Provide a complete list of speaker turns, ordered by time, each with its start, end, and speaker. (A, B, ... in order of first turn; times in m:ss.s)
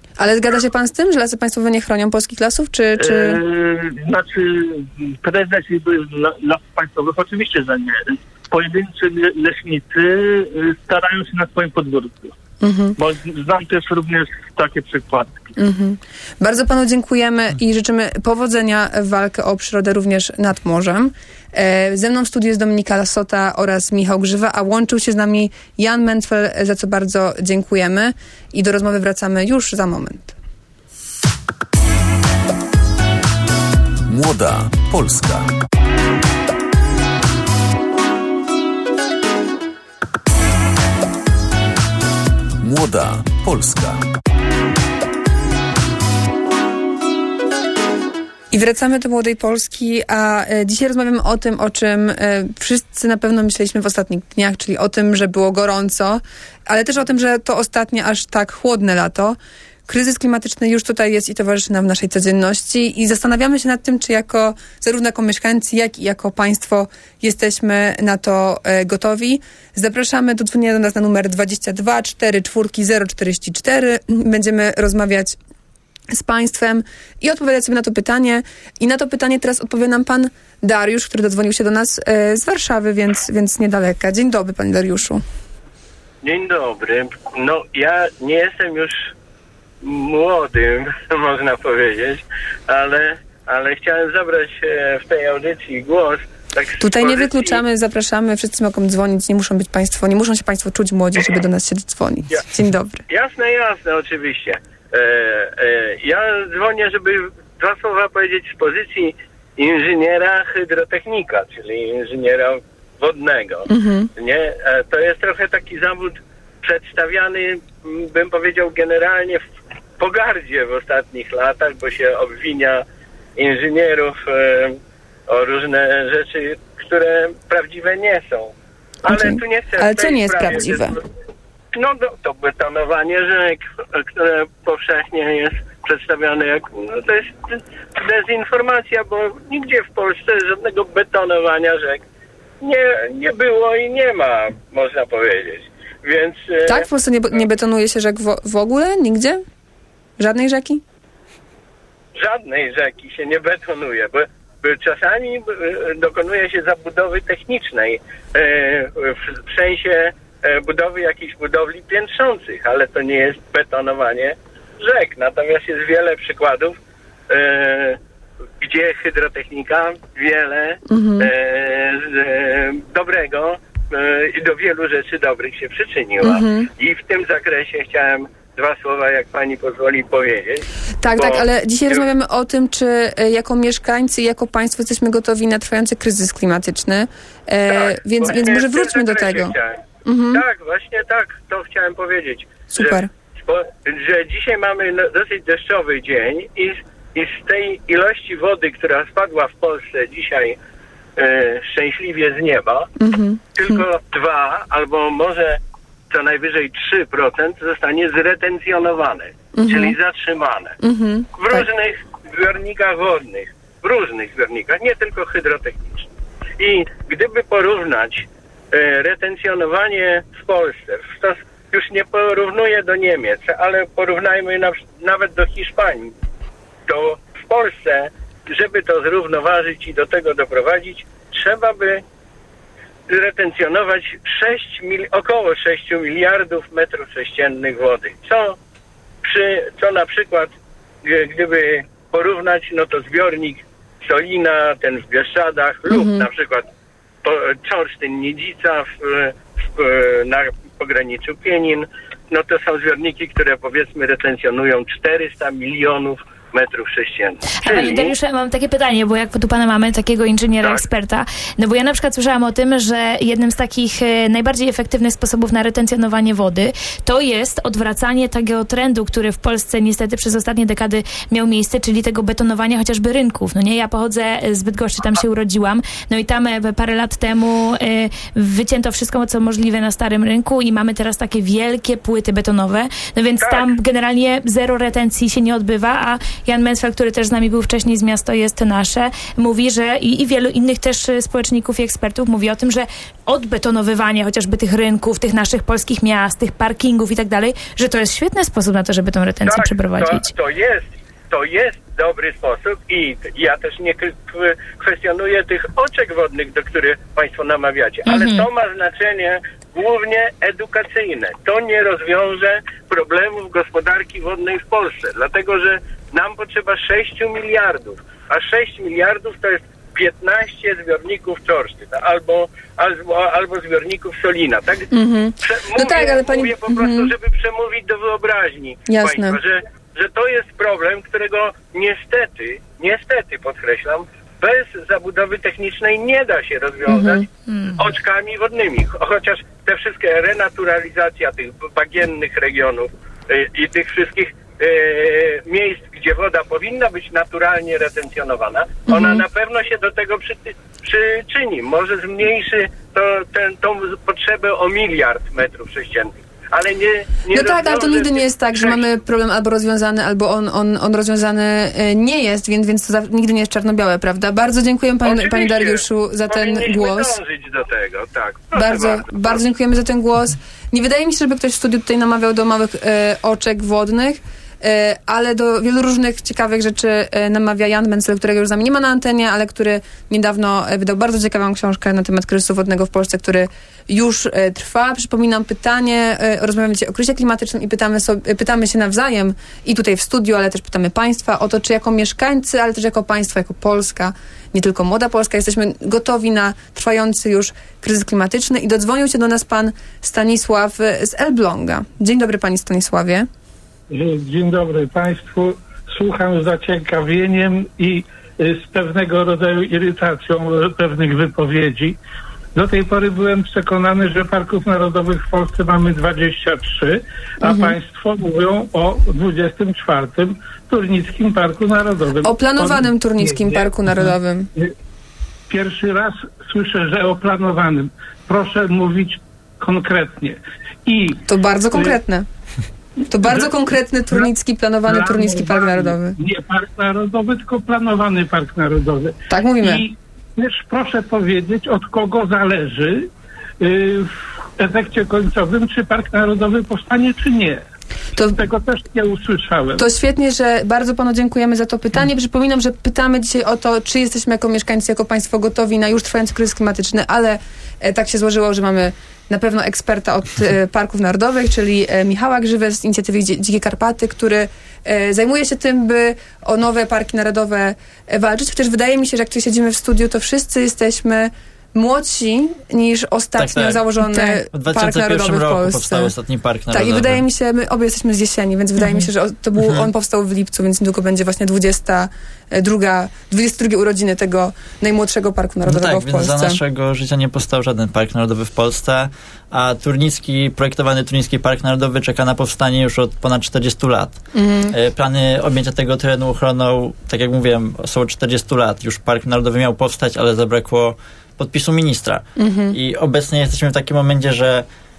0:00.2-0:03.4 A
0:03.0-0:12.3 B
0:12.6-0:13.0 A
0:13.0-0:15.4 B
0:15.6-0:30.3 A
0:34.1-0:35.5 C
0:42.6-0:44.0 C
0:48.5-0:59.4 A
0:59.9-1:15.4 A
1:16.1-1:25.2 A
1:26.2-1:29.1 D
1:29.8-1:37.6 D
1:36.8-1:43.0 A
1:43.1-1:59.4 D
1:53.7-1:54.1 A
2:00.0-2:02.8 D
2:03.4-2:04.8 D
2:05.3-2:08.5 D
2:09.1-2:10.9 D
2:09.1-2:11.0 A
2:11.7-2:22.0 D
2:22.6-2:26.8 D
2:26.7-2:29.4 A
2:30.2-2:30.8 A
2:32.2-2:46.7 D
2:47.3-2:48.0 D
2:48.6-3:00.6 D
2:50.9-2:51.3 A
2:56.2-2:56.7 A
3:01.0-3:09.5 A
3:01.2-3:02.0 D
3:07.7-3:20.6 D
3:10.0-3:10.4 A
3:12.7-3:13.1 A
3:21.2-3:22.9 D
3:23.0-3:23.8 A
3:23.6-3:25.6 D
3:26.1-3:30.8 D
3:29.5-3:29.9 A
3:30.8-3:31.6 A
3:31.3-3:36.1 D
3:36.6-3:46.1 D
3:46.9-3:52.0 D
3:53.1-3:58.6 D
3:59.2-4:00.5 D
4:01.0-4:06.7 D
4:05.9-4:06.2 A
4:07.2-4:18.1 D
4:17.6-5:00.3 E
4:43.4-4:43.7 D
4:59.4-5:24.9 D
5:08.1-5:08.4 E
5:24.9-5:27.1 A
5:25.4-5:37.2 D
5:28.9-5:29.4 A
5:36.9-5:37.2 A
5:37.5-5:37.8 E
5:37.8-5:58.9 D
5:48.9-5:49.2 A
5:57.3-6:07.1 A
6:05.0-6:09.4 D
6:08.6-6:43.3 A
6:43.9-6:52.0 F
6:52.6-7:04.7 F
6:57.4-6:57.8 A
7:02.2-7:04.5 A
7:05.5-7:12.0 F
7:11.3-7:12.2 A
7:13.1-7:16.1 A
7:13.2-7:13.5 F
7:14.8-7:23.1 F
7:19.3-7:19.8 A
7:23.6-7:27.6 F
7:28.2-7:29.8 F
7:29.8-7:56.1 A
7:53.4-7:57.2 G
7:56.7-8:06.6 A
7:59.6-7:59.9 G
8:05.6-8:24.6 G
8:14.3-8:14.7 A
8:22.4-8:22.8 A